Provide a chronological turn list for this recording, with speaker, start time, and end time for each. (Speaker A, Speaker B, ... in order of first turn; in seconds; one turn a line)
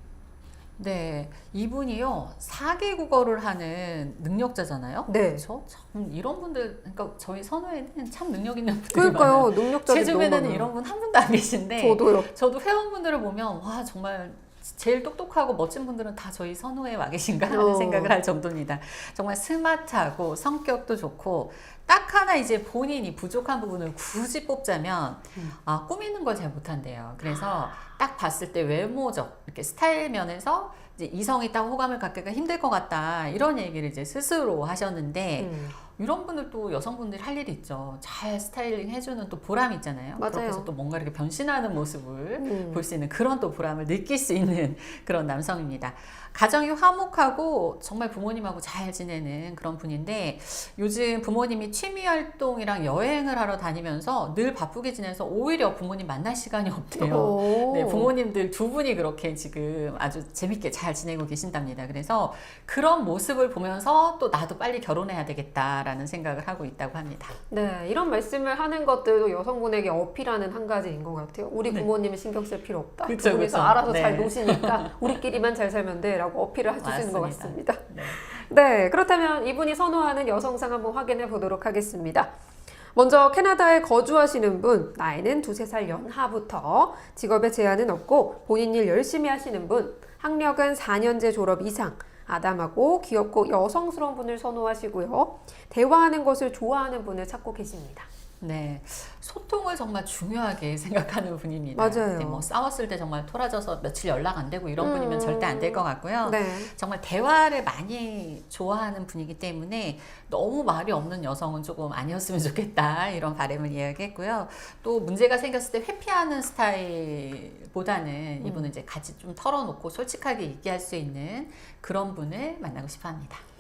Speaker A: 0.8-67.4
Speaker B: 5.1-5.4
Speaker B: 8.9-10.7
Speaker B: 11.8-12.3
Speaker B: 17.5-18.2
Speaker B: 35.4-35.8
Speaker B: 40.2-40.7
Speaker B: 42.4-42.9
Speaker B: 57.0-58.1
Speaker B: 67.5-82.3
Speaker A: 73.1-75.1
Speaker A: 76.8-78.3
Speaker B: 83.0-98.1
Speaker A: 98.4-123.4
Speaker B: 101.7-102.5
Speaker B: 104.8-106.7
Speaker B: 118.4-118.7